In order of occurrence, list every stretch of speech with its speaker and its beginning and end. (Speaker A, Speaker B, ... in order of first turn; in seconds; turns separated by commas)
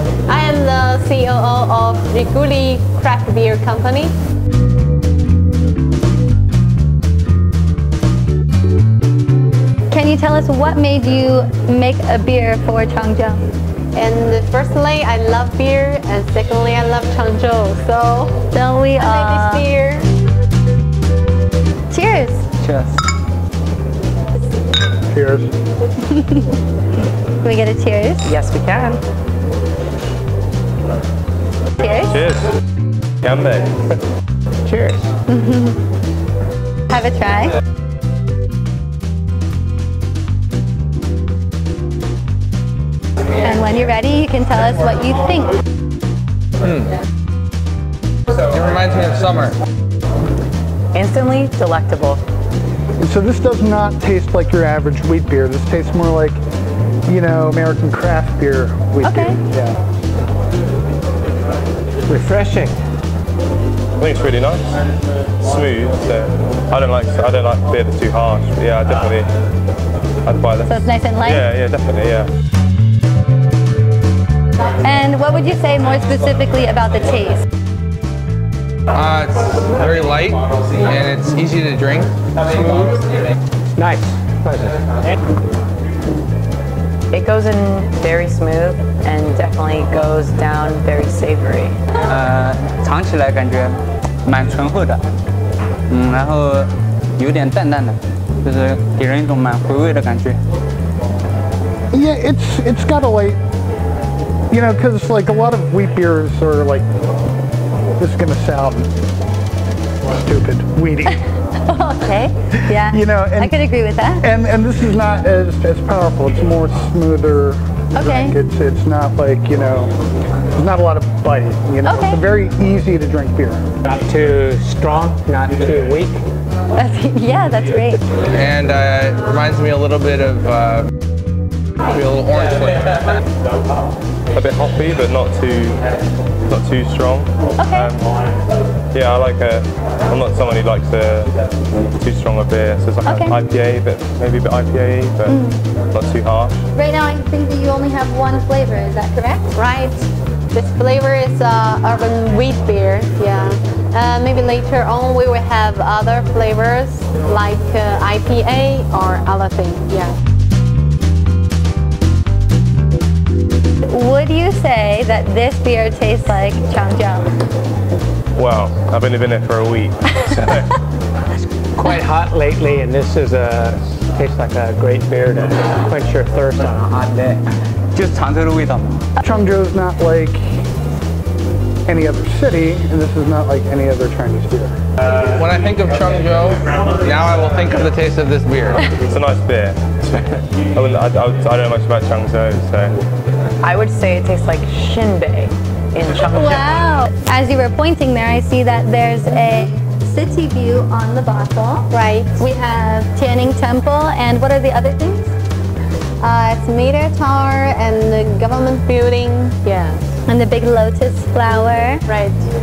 Speaker A: 0.3-4.1, Speaker B: 9.9-13.4, Speaker A: 13.9-18.4, Speaker B: 18.5-19.6, Speaker A: 19.0-20.1, Speaker B: 21.9-22.4, Speaker C: 22.6-22.9, Speaker D: 25.1-25.5, Speaker B: 26.1-26.4, Speaker B: 27.4-28.3, Speaker E: 28.2-29.0, Speaker B: 31.8-32.2, Speaker F: 32.1-32.5, Speaker F: 33.2-33.7, Speaker E: 34.6-35.0, Speaker B: 35.3-35.8, Speaker B: 36.9-37.5, Speaker B: 43.4-45.6, Speaker G: 46.6-46.9, Speaker G: 48.5-49.6, Speaker E: 50.9-52.2, Speaker D: 53.0-56.4, Speaker D: 57.0-59.8, Speaker B: 59.0-59.4, Speaker H: 62.1-62.8, Speaker F: 64.0-64.6, Speaker F: 65.4-69.3, Speaker F: 70.2-72.3, Speaker B: 70.7-71.4, Speaker B: 74.8-77.5, Speaker G: 78.9-83.0, Speaker H: 83.8-84.7, Speaker E: 87.1-91.8, Speaker C: 92.1-95.0, Speaker C: 95.9-100.4, Speaker D: 101.9-103.4, Speaker D: 104.5-106.8, Speaker D: 108.0-108.9, Speaker D: 110.1-111.2, Speaker B: 111.6-114.2, Speaker D: 112.7-113.5, Speaker D: 114.2-119.9, Speaker B: 117.9-118.4, Speaker D: 120.5-123.6, Speaker B: 121.8-122.2, Speaker H: 123.8-126.2, Speaker B: 126.8-128.0, Speaker G: 128.3-130.9, Speaker G: 131.9-133.0, Speaker F: 134.3-135.8, Speaker F: 136.5-138.0, Speaker B: 137.6-137.9, Speaker F: 138.9-145.4, Speaker B: 143.0-143.4, Speaker B: 145.3-145.6, Speaker F: 145.9-146.5, Speaker B: 146.7-149.5, Speaker A: 149.5-160.1, Speaker B: 163.9-167.3, Speaker F: 168.3-170.7, Speaker H: 171.4-176.8, Speaker C: 176.9-177.4, Speaker C: 177.9-179.0, Speaker D: 179.2-180.6, Speaker D: 181.9-184.7, Speaker G: 185.3-188.9, Speaker F: 188.9-189.8, Speaker F: 190.7-192.9, Speaker E: 193.6-196.8, Speaker B: 196.3-205.2, Speaker A: 201.9-202.4, Speaker A: 206.2-210.0, Speaker B: 210.3-212.0, Speaker A: 212.1-212.4